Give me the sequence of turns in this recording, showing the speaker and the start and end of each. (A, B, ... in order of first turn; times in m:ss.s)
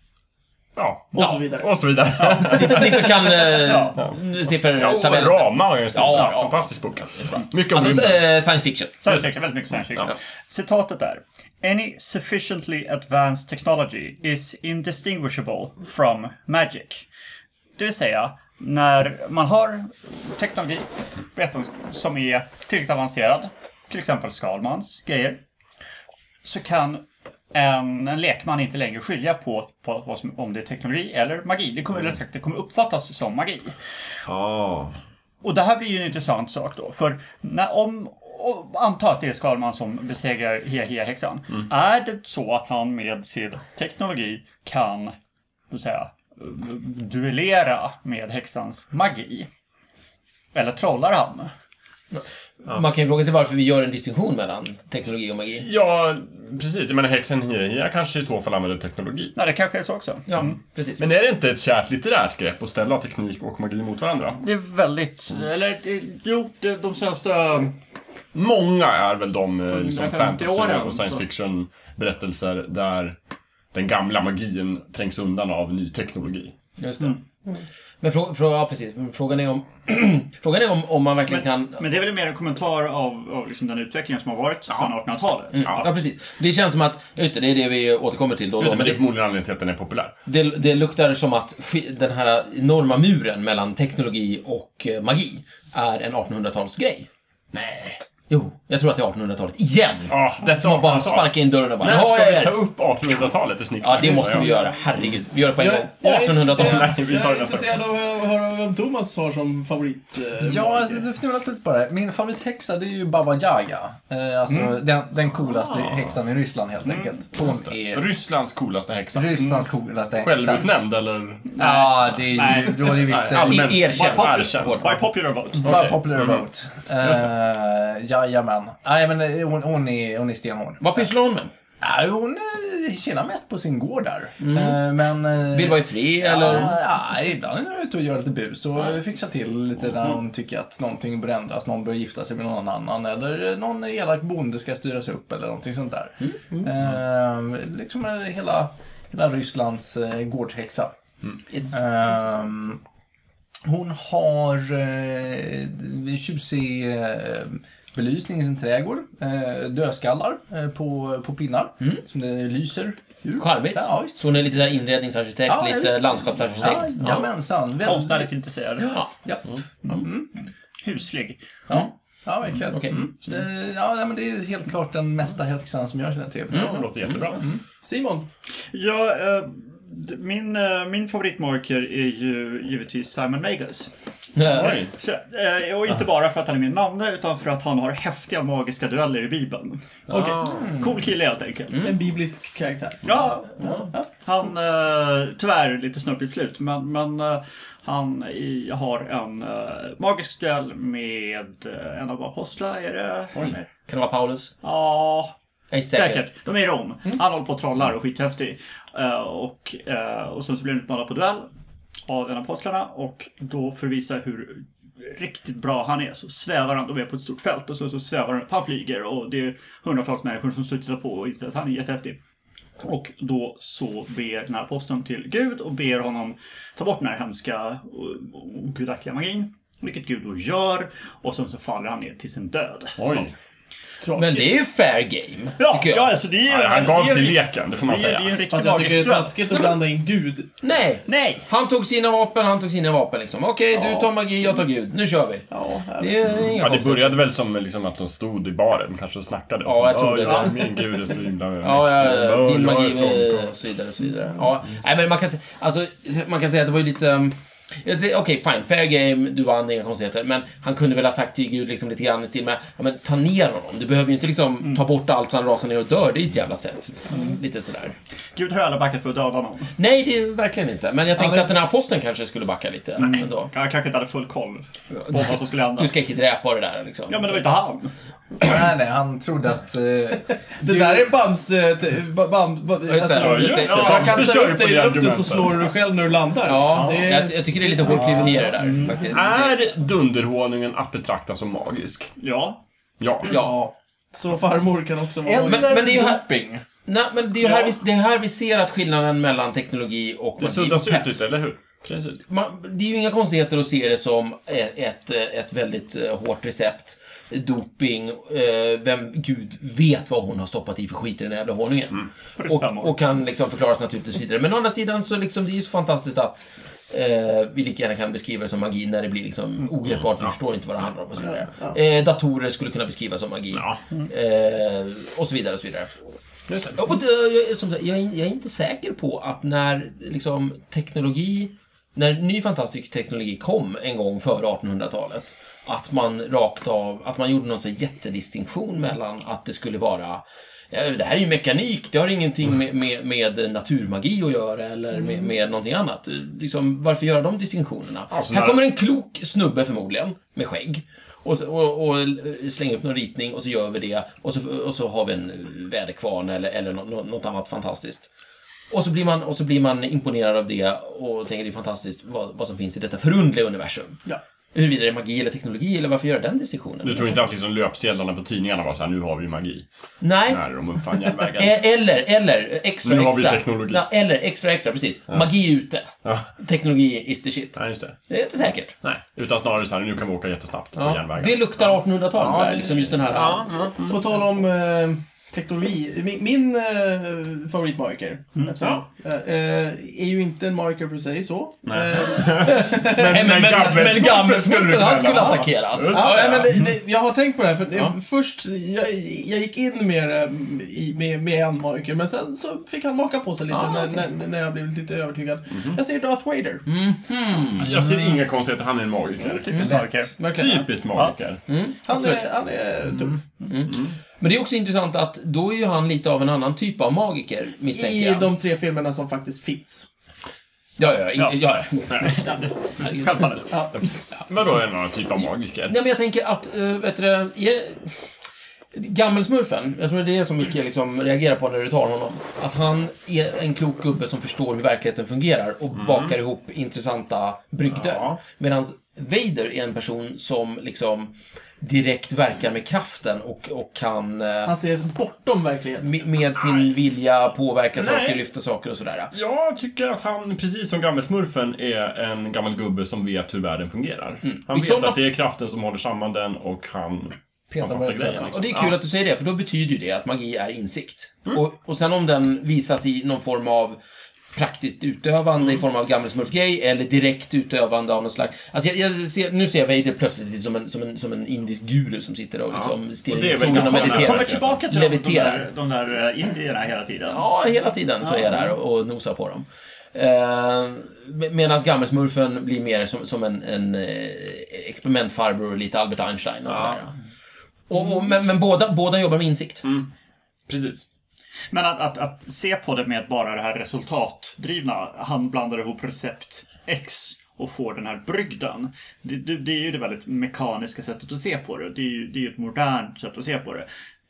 0:00.8-0:03.2 A
0:01.1-0:01.7 B
0:01.2-0:01.4 C
0:02.5-0:06.6 C
0:03.5-0:04.0 D
0:04.8-0:08.2 A
0:07.7-0:09.1 C
0:09.0-0:17.1 D
0:17.8-0:25.4 D
0:26.4-0:33.8 D
0:34.3-0:35.0 A
0:35.4-0:45.1 D
0:45.7-0:49.5 D
0:50.5-0:51.5 D
0:52.1-0:55.7 C
0:55.6-0:59.4 A
0:59.4-1:00.6 D
1:00.3-1:01.0 C
1:01.0-1:04.4 A
1:04.4-1:07.8 D
1:08.3-1:13.2 A
1:09.7-1:11.3 D
1:13.7-1:16.6 A
1:16.8-1:17.2 C
1:18.0-1:21.8 C
1:21.3-1:25.9 D
1:25.5-1:29.1 C
1:28.6-1:30.2 A
1:30.3-1:37.1 C
1:37.5-1:38.0 A
1:38.3-1:42.6 C
1:40.1-1:45.2 A
1:43.8-1:46.9 C
1:45.6-1:51.0 B
1:46.4-1:47.8 A
1:50.4-1:58.0 E
1:54.5-1:54.8 D
1:55.5-1:56.1 A
1:56.9-1:57.1 D
1:57.4-2:01.6 A
1:59.1-2:00.7 E
2:01.6-2:03.3 D
2:01.6-2:03.8 E
2:02.8-2:05.0 A
2:03.4-2:05.0 C
2:03.9-2:05.9 D
2:05.6-2:06.4 A
2:05.6-2:11.1 E
2:10.8-2:11.5 C
2:11.8-2:31.0 E
2:14.4-2:14.8 C
2:15.4-2:16.8 C
2:31.7-2:32.8 E
2:33.6-2:44.3 E
2:43.4-2:47.3 C
2:45.5-2:48.3 E
2:47.8-2:48.9 D
2:48.8-2:49.1 C
2:49.2-2:50.3 E
2:50.8-2:51.4 D
2:51.7-2:57.6 E
2:52.7-2:53.0 C
2:56.5-2:57.4 C
2:56.5-2:57.5 A
2:57.8-2:58.3 B
2:58.7-3:03.9 D
3:04.4-3:04.8 C
3:04.5-3:04.9 A
3:04.5-3:10.0 D
3:10.1-3:10.8 A
3:10.1-3:10.4 B
3:10.6-3:11.9 D
3:11.8-3:14.1 B
3:13.0-3:13.6 D
3:13.6-3:13.9 C
3:14.2-3:23.6 D
3:23.3-3:23.6 A
3:23.9-3:24.5 C
3:24.6-3:25.3 D
3:25.7-3:26.3 C
3:25.9-3:31.5 D
3:32.1-3:42.2 D
3:42.8-3:53.2 D
3:53.0-3:53.3 A
3:54.0-3:54.5 B
3:54.1-3:56.2 C
3:55.6-3:59.4 D
3:56.4-3:58.4 A
3:58.5-4:00.5 B
3:59.5-3:59.8 C
4:00.6-4:07.2 C
4:01.1-4:01.4 D
4:03.7-4:04.1 B
4:05.5-4:06.2 B
4:06.2-4:13.6 A
4:09.6-4:10.6 C
4:11.6-4:28.0 C
4:28.4-4:29.7 D
4:29.8-4:33.5 C
4:31.2-4:31.5 B
4:33.0-4:35.9 D
4:34.9-4:37.4 C
4:37.1-4:37.9 D
4:38.4-4:41.2 E
4:40.6-4:49.2 B
4:42.9-4:44.3 C
4:43.1-4:45.7 A
4:46.5-4:49.6 C
4:46.6-4:47.3 D
4:48.6-4:49.1 D
4:49.1-4:52.1 A
4:52.2-4:52.6 D
4:53.0-4:53.4 A
4:53.3-4:53.7 C
4:54.1-4:55.8 B
4:55.2-4:56.6 E
4:55.4-4:56.3 C
4:56.8-5:01.3 C
5:00.4-5:02.2 A
5:02.3-5:25.9 C
5:12.4-5:13.0 D
5:19.9-5:20.3 A
5:21.2-5:21.8 B
5:23.5-5:23.8 A
5:26.5-5:26.9 A
5:26.8-5:58.1 C
5:48.1-5:48.6 A
5:58.7-6:04.0 C
6:04.5-6:07.2 C
6:06.8-6:09.7 A
6:10.0-6:10.4 C
6:10.3-6:11.6 A
6:11.4-6:18.8 C
6:12.8-6:13.8 A
6:16.0-6:16.3 A
6:17.6-6:18.0 A
6:18.8-6:24.1 A
6:20.8-6:23.5 C
6:23.9-6:34.0 B
6:31.7-6:36.6 A
6:33.0-6:36.5 C
6:35.9-6:46.6 B
6:43.5-6:44.0 C
6:45.6-6:45.8 A
6:46.7-6:47.8 C
6:47.6-6:51.4 A
6:49.2-6:50.2 D
6:49.5-6:50.7 C
6:51.5-6:52.2 C
6:51.8-6:53.3 B
6:53.5-6:58.3 C
6:53.7-6:54.0 A
6:57.7-6:59.9 B
7:00.8-7:03.3 C
7:01.9-7:03.7 D
7:03.8-7:05.8 A
7:05.7-7:08.0 C
7:08.7-7:24.6 C
7:15.8-7:16.2 A
7:17.7-7:18.2 A
7:24.5-7:25.9 B
7:25.8-7:29.1 C
7:27.8-7:28.2 A
7:29.1-7:38.8 A
7:34.2-7:35.0 C
7:37.7-7:43.8 C
7:44.3-7:55.5 C
7:52.5-7:54.6 A
7:53.5-7:57.3 D
7:57.1-8:06.9 C
7:58.0-7:58.5 D
8:06.5-8:06.8 A
8:07.7-8:09.7 C
8:09.6-8:09.9 A
8:10.5-8:10.9 A
8:11.5-8:23.7 D